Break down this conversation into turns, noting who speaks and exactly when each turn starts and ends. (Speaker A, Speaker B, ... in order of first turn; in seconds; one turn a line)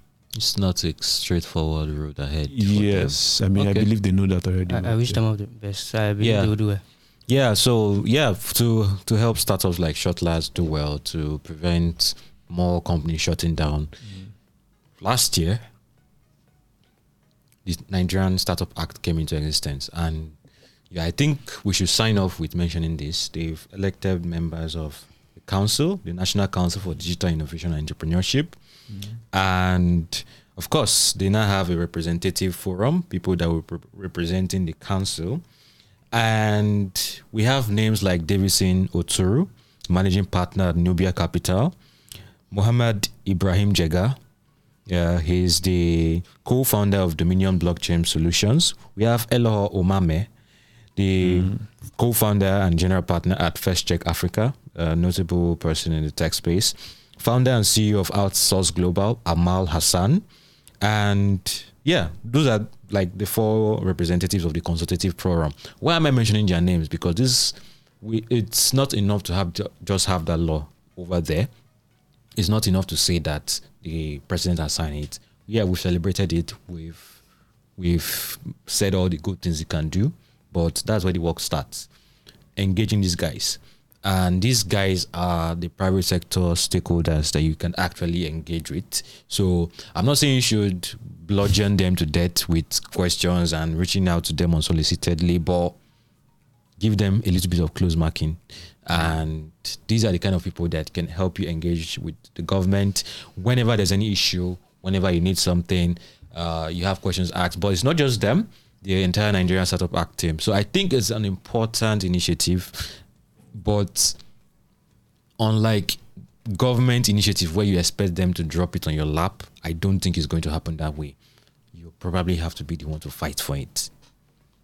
Speaker A: 0.3-3.9
Speaker B: 2.5-5.2
Speaker C: 4.7-6.8
Speaker A: 6.2-6.5
Speaker A: 7.3-13.9
Speaker A: 15.0-15.7
Speaker A: 17.6-20.4
Speaker A: 20.9-28.6
Speaker A: 29.3-35.4
Speaker A: 36.1-41.7
Speaker A: 42.5-44.2
Speaker A: 44.9-50.3
Speaker A: 51.0-60.2
Speaker B: 51.2-51.6
Speaker A: 60.8-71.5
Speaker A: 72.4-77.2
Speaker A: 77.8-81.9
Speaker A: 82.5-95.8
Speaker A: 96.8-113.0
Speaker A: 113.5-114.2
Speaker A: 115.4-121.2
Speaker A: 121.7-123.9